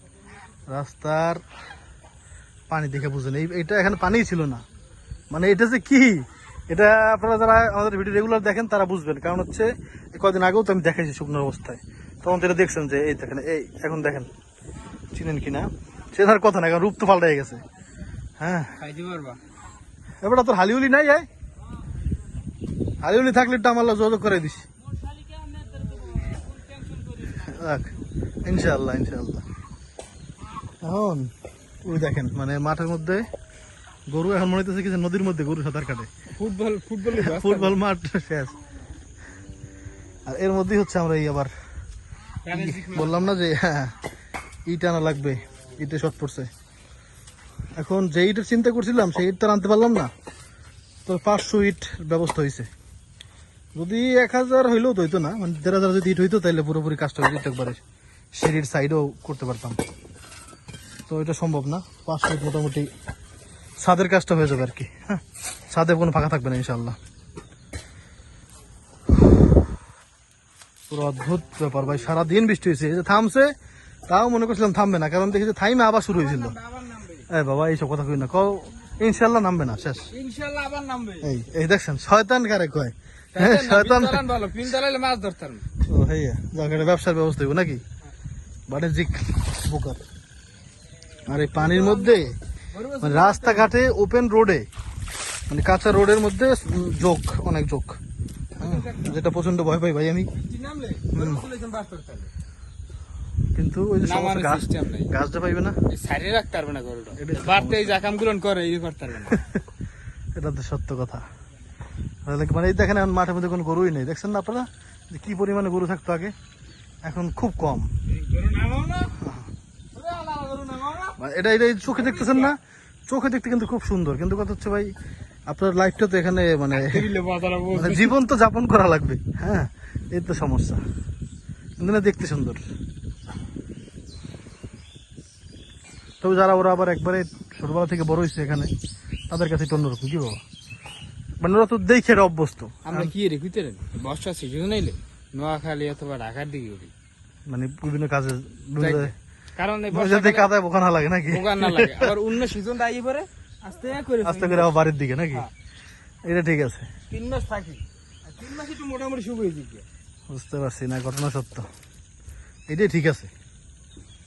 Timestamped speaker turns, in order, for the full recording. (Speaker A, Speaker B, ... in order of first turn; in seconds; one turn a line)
Speaker A: 0.7-1.4
Speaker A: 2.7-4.6
Speaker A: 5.3-14.3
Speaker A: 15.1-17.6
Speaker A: 18.4-18.8
Speaker B: 18.8-19.4
Speaker A: 20.2-21.3
Speaker A: 23.0-24.7
Speaker B: 25.6-27.3
Speaker A: 27.3-29.4
Speaker A: 30.8-31.3
Speaker A: 31.8-33.3
Speaker A: 34.1-36.1
Speaker B: 36.4-37.8
Speaker A: 37.1-38.6
Speaker A: 40.3-41.5
Speaker B: 42.4-43.3
Speaker A: 42.5-44.0
Speaker A: 44.7-46.5
Speaker A: 47.8-50.1
Speaker A: 51.1-52.7
Speaker A: 53.8-57.8
Speaker A: 58.3-59.8
Speaker A: 61.1-62.9
Speaker A: 63.8-67.0
Speaker A: 70.9-73.5
Speaker A: 74.1-76.5
Speaker B: 76.1-77.3
Speaker A: 77.3-80.1
Speaker B: 80.1-81.3
Speaker A: 81.2-84.3
Speaker B: 83.3-85.6
Speaker A: 85.8-87.8
Speaker A: 88.7-90.0
Speaker A: 91.3-92.4
Speaker B: 91.5-93.7
Speaker A: 93.0-94.7
Speaker A: 95.5-98.0
Speaker B: 98.6-99.2
Speaker A: 98.6-100.3
Speaker B: 100.3-102.3
Speaker A: 101.1-101.4
Speaker A: 103.5-105.8
Speaker B: 104.0-105.1
Speaker B: 105.9-109.4
Speaker A: 107.2-108.0
Speaker A: 110.3-111.2
Speaker A: 112.3-116.3
Speaker A: 117.0-117.9
Speaker B: 118.1-119.2
Speaker A: 119.2-119.5
Speaker B: 119.9-121.2
Speaker A: 121.2-124.9
Speaker B: 121.8-122.5
Speaker A: 125.5-127.1
Speaker B: 126.7-128.2
Speaker A: 127.7-130.8
Speaker A: 131.8-132.6
Speaker A: 136.2-138.7
Speaker A: 139.3-140.4
Speaker A: 141.4-143.1
Speaker B: 142.8-146.9
Speaker A: 147.5-149.1
Speaker B: 148.8-150.5
Speaker A: 149.9-152.1
Speaker B: 151.3-154.8
Speaker A: 154.2-155.5
Speaker A: 156.3-156.9
Speaker B: 157.1-159.8
Speaker A: 160.3-161.7
Speaker A: 162.7-163.3